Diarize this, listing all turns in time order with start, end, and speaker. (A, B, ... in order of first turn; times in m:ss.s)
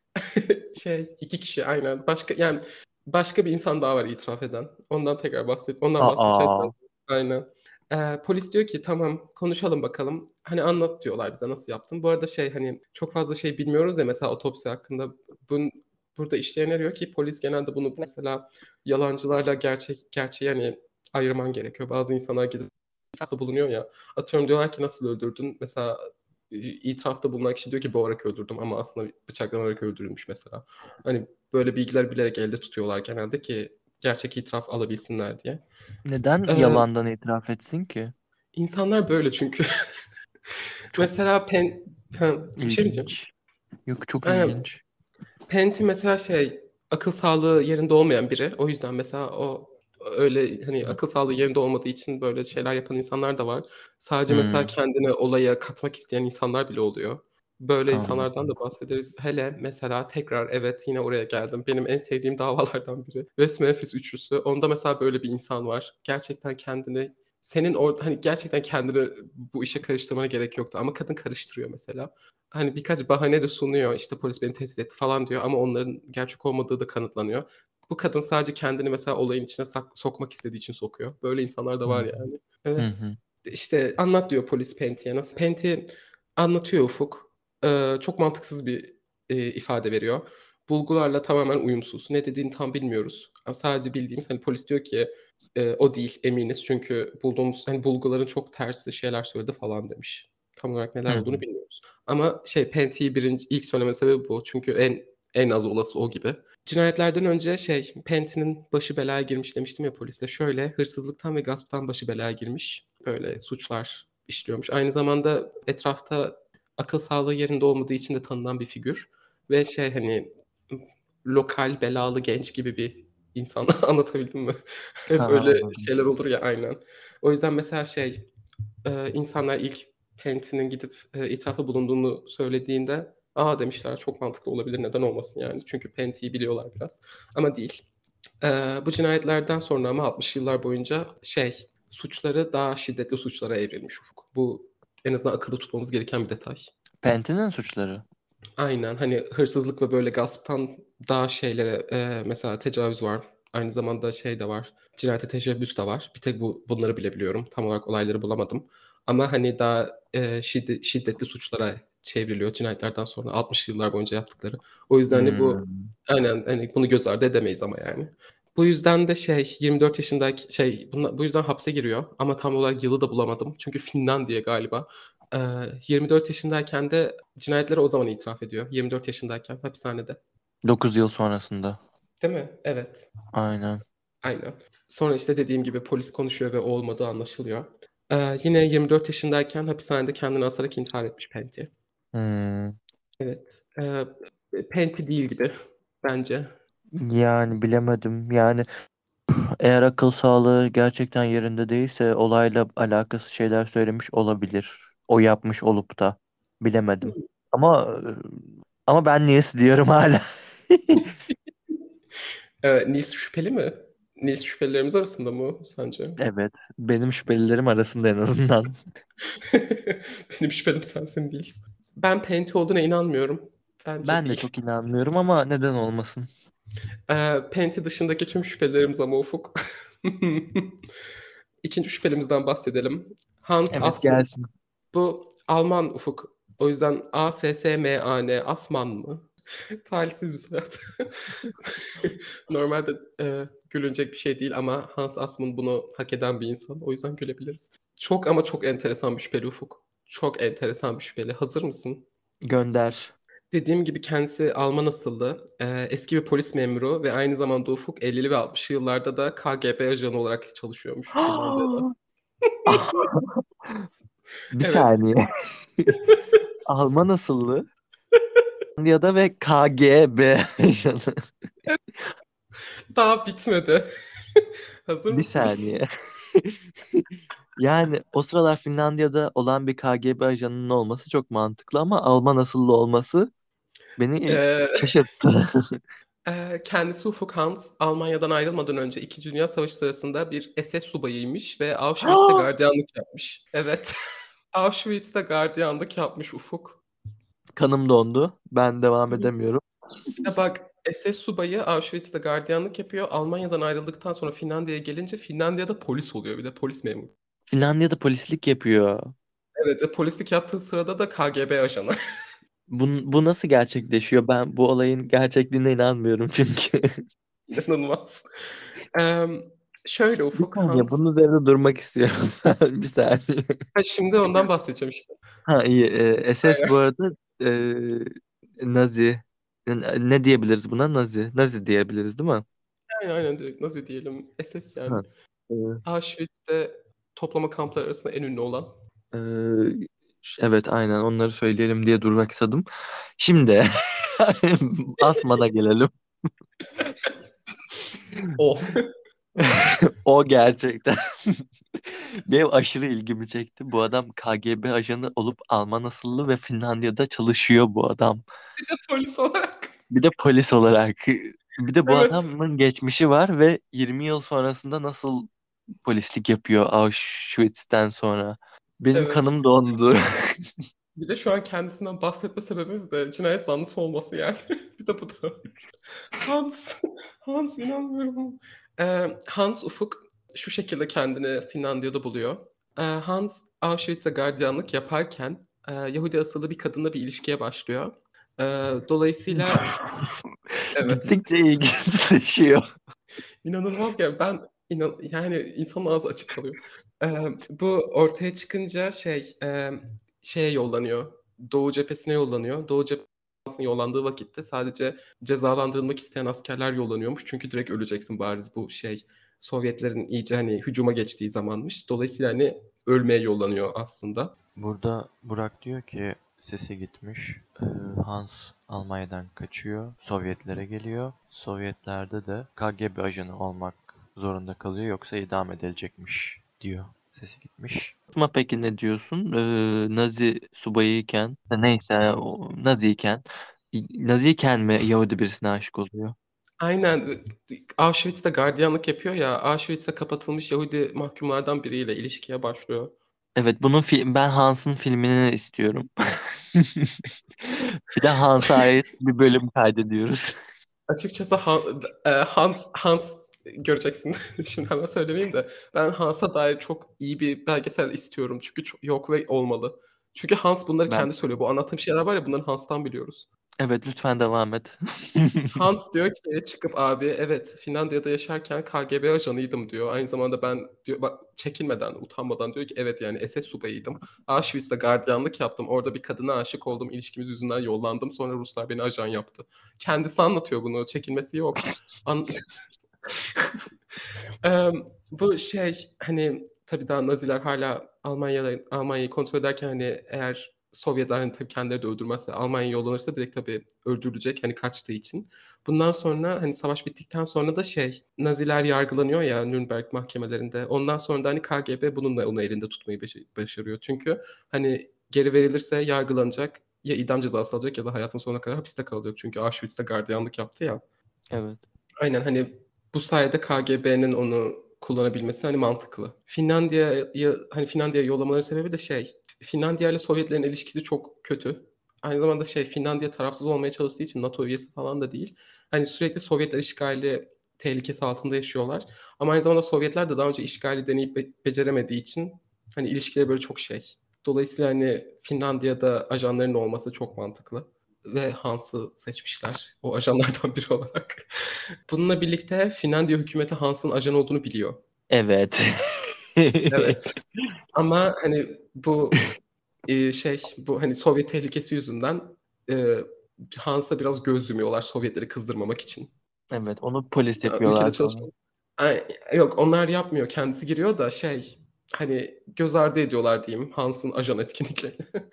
0:00.2-0:26.0 A
0:06.0-0:06.7 B
0:26.5-0:35.6 A
0:36.0-0:38.1 B
0:36.5-0:36.8 A
0:38.5-0:39.6 A
0:40.9-0:43.1 A
0:42.6-0:43.3 B
0:43.8-0:44.8 B
0:44.2-0:44.6 A
0:45.5-2:08.3 A
0:54.3-0:54.7 B
0:57.9-0:58.3 B
1:21.8-1:22.2 B
1:22.8-1:23.2 B
1:41.1-1:41.4 B
2:05.2-2:05.9 B
2:08.8-2:17.8 A
2:18.4-2:26.7 A
2:27.0-2:28.0 B
2:28.6-3:00.2 A
2:45.1-2:45.9 B
3:00.6-3:01.8 B
3:02.2-3:03.1 A
3:03.3-3:03.8 B
3:04.2-3:11.7 A
3:12.1-3:12.8 B
3:13.2-3:16.5 A
3:17.0-3:18.6 B
3:19.3-3:31.0 B
3:32.6-3:36.2 A
3:36.2-3:38.8 B
3:39.5-3:44.4 A
3:44.0-3:46.3 B
3:47.1-3:50.7 A
3:51.6-3:54.2 A
3:53.7-3:54.4 B
3:54.9-3:59.3 A
3:59.8-4:01.1 A
4:01.6-4:12.1 A
4:12.4-4:13.1 B
4:13.5-4:21.9 A
4:21.2-4:21.9 B
4:22.7-4:23.8 B
4:22.7-4:23.0 A
4:24.5-4:25.2 B
4:24.6-4:24.9 A
4:26.0-4:26.4 A
4:26.6-4:27.6 B
4:28.8-4:31.1 B
4:32.9-4:35.5 A
4:35.1-4:37.0 B
4:37.6-4:43.3 B
4:44.0-4:45.8 B
4:44.3-4:45.0 A
4:46.2-4:53.9 A
4:52.0-4:52.5 B
4:54.5-4:56.8 A
4:57.6-5:00.2 B
5:00.2-5:07.1 A
5:07.5-5:09.1 B
5:09.6-5:11.9 A
5:12.7-5:16.9 B
5:17.5-5:18.2 A
5:18.9-5:21.0 A
5:20.3-5:23.6 B
5:23.7-5:25.2 A
5:25.4-5:32.4 B
5:26.4-5:26.7 A
5:32.9-5:35.0 A
5:34.9-5:35.8 B
5:35.8-5:38.7 A
5:39.1-5:42.6 B
5:43.2-5:45.9 B
5:48.4-5:48.9 A
5:49.4-5:58.2 B
5:58.6-5:59.8 A
5:59.9-6:05.3 B
6:01.8-6:02.2 A
6:05.8-6:10.4 B
6:08.9-6:09.2 A
6:11.0-6:15.4 A
6:16.2-6:29.7 A
6:29.4-6:30.1 B
6:30.7-6:31.0 A
6:30.9-6:32.6 B
6:33.4-6:54.3 A
6:54.6-7:08.0 C
7:08.1-7:16.2 B
7:16.6-7:22.9 A
7:23.4-7:30.4 B
7:30.9-7:43.3 A
7:43.6-7:45.6 B
7:45.5-8:02.4 A
8:04.4-8:30.8 A
8:31.3-8:31.6 B
8:32.0-9:01.2 A
9:01.9-9:04.8 A
9:05.1-9:07.2 B
9:06.7-9:07.0 A
9:07.7-9:09.3 A
9:09.9-9:16.1 A
9:16.5-9:18.3 B
9:17.4-9:25.0 A